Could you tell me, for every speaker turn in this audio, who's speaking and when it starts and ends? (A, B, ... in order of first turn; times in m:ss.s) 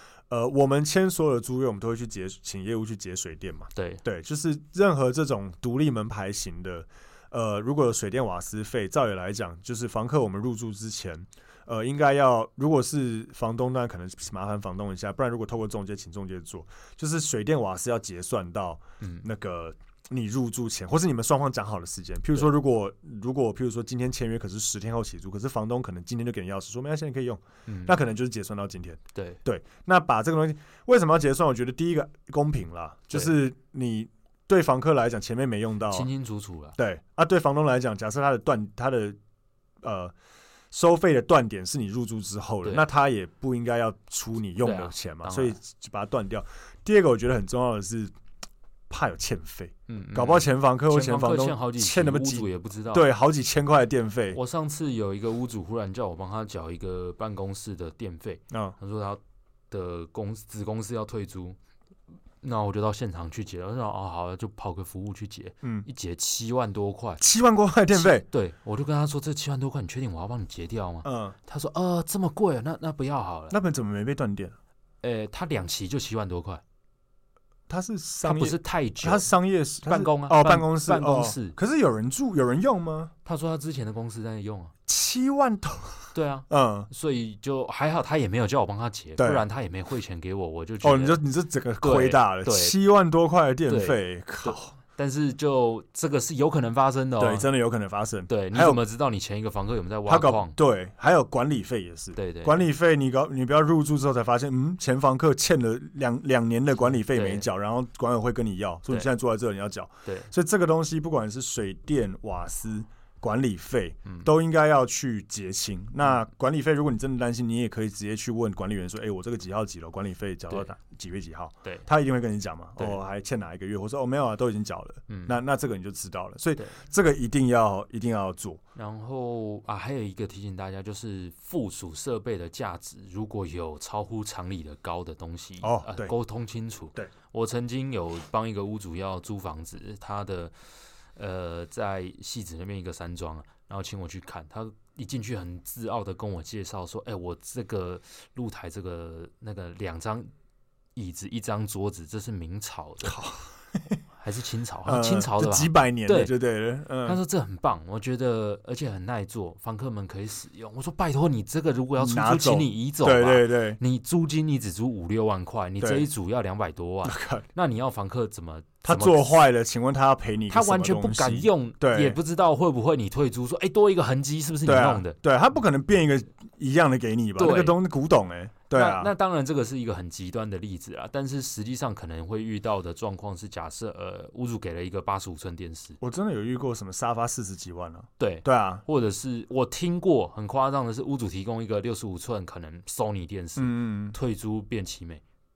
0:00.3-0:36.1 A
0:03.8-0:04.0 B
0:27.7-0:28.0 B
0:35.9-0:36.8 B
0:36.8-0:39.2 A
0:39.8-0:40.1 A
0:40.7-0:48.1 A
0:44.6-0:45.6 B
0:48.9-0:54.4 A
0:49.9-0:53.1 B
0:54.3-1:01.6 B
0:58.5-0:58.8 A
1:02.4-1:07.2 B
1:07.2-1:08.2 A
1:07.9-1:13.6 B
1:11.0-1:11.4 A
1:13.5-1:14.6 A
1:15.0-1:16.6 B
1:17.7-1:23.1 A
1:18.2-1:19.3 B
1:19.8-1:21.6 B
1:23.2-1:24.7 B
1:24.9-1:26.9 A
1:26.1-1:31.2 B
1:29.2-1:29.4 A
1:30.8-1:34.7 A
1:31.8-1:32.8 B
1:33.7-1:37.5 B
1:37.2-1:38.8 A
1:38.3-1:40.6 B
1:40.1-2:08.6 A
1:42.2-1:42.6 B
1:46.9-1:47.5 B
2:05.1-2:05.4 B
2:08.8-2:20.6 B
2:15.6-2:16.1 A
2:21.2-2:30.3 B
2:31.0-2:33.2 B
2:33.0-2:34.0 A
2:34.2-2:36.3 B
2:34.9-2:37.2 A
2:37.0-2:49.4 B
2:42.0-2:43.8 A
2:45.8-2:46.1 A
2:47.0-2:47.5 A
2:48.8-2:52.2 A
2:50.5-2:55.2 B
2:54.7-2:59.1 A
2:57.4-2:57.8 B
2:58.7-3:06.0 B
3:06.0-3:08.8 A
3:08.2-3:15.2 B
3:13.6-3:14.2 A